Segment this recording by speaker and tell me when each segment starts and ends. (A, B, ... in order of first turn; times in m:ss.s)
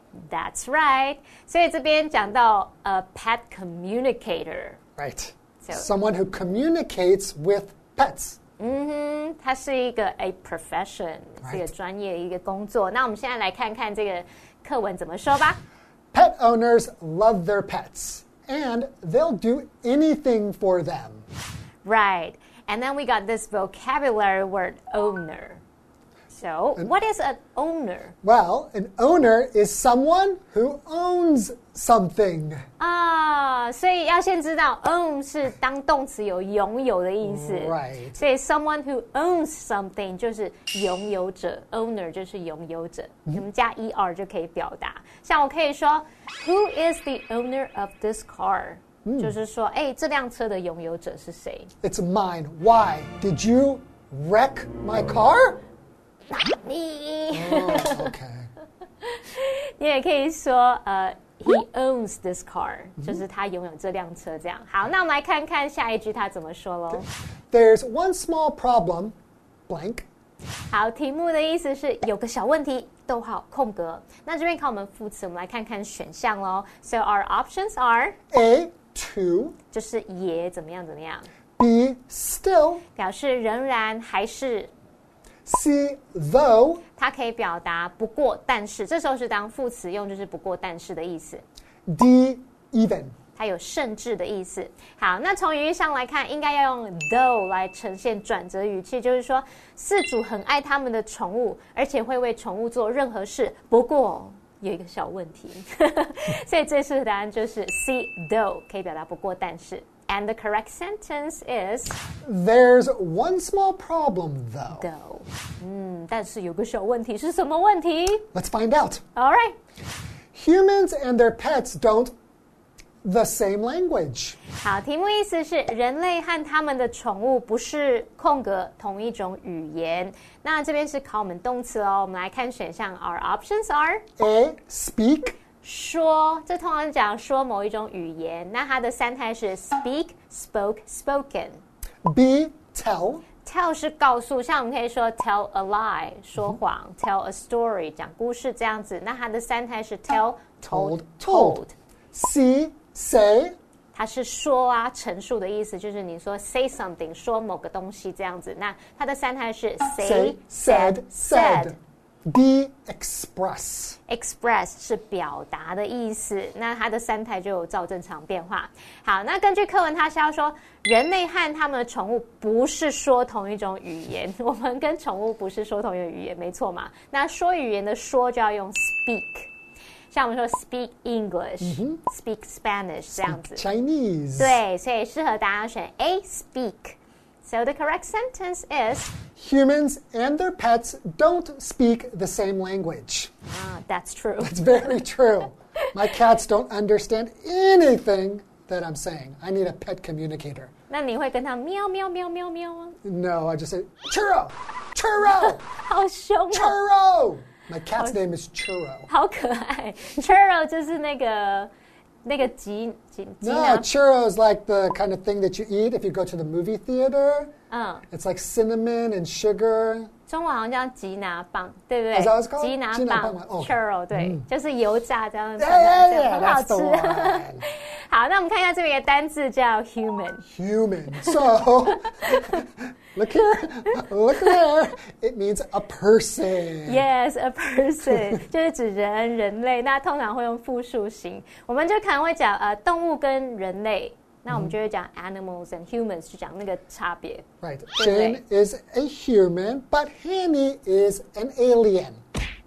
0:00.3-0:04.8 A
0:05.0-0:08.4 B
0:05.6-0:05.9 A
0:08.6-0:15.6 A
0:16.1-0:21.2 B
0:21.8-0:25.6 A
0:26.3-0:28.1 A
0:28.2-0:32.6 B
0:32.8-0:51.7 A
0:37.2-0:38.2 B
0:49.0-0:49.3 B
0:51.8-0:55.6 B
0:56.3-0:58.1 A
0:57.3-0:58.5 B
0:59.0-1:07.0 A
1:06.9-1:09.1 B
1:09.7-1:10.1 B
1:10.7-1:18.2 A
1:18.3-1:19.5 B
1:19.7-1:21.3 A
1:21.6-1:22.8 B
1:23.0-1:24.7 A
1:25.4-1:26.8 B
1:27.0-1:31.4 A
1:31.9-1:33.1 B
1:33.4-1:52.0 A
1:52.2-1:54.9 B
1:54.7-1:58.2 A
1:58.3-1:59.0 B
1:59.2-1:59.6 A
2:00.3-2:02.1 B
2:03.0-2:04.4 B
2:04.6-2:14.0 A
2:14.2-2:15.4 B
2:15.6-2:21.6 A
2:22.0-2:23.2 B
2:23.4-2:31.7 A
2:30.6-2:31.6 B
2:32.1-2:33.5 B
2:33.9-2:41.8 A
2:40.0-2:44.0 B
2:44.1-2:59.5 A
3:00.1-3:03.6 A
3:01.6-3:02.0 B
3:03.1-3:04.6 B
3:04.4-3:09.1 A
3:09.3-3:13.3 B
3:13.4-3:14.7 A
3:14.4-3:20.7 B
3:20.9-3:23.0 A
3:23.0-3:25.6 B
3:25.8-3:26.8 A
3:26.5-3:29.1 B
3:29.1-3:31.7 A
3:32.2-3:33.9 A
3:33.4-3:37.5 B
3:37.7-3:38.0 A
3:38.1-3:40.1 B
3:40.3-3:50.4 A
3:42.1-3:44.4 B
3:45.6-3:47.6 B
3:50.5-3:57.0 B
3:56.9-4:07.4 A
3:58.0-3:58.4 B
4:07.6-4:12.2 B
4:08.0-4:08.4 A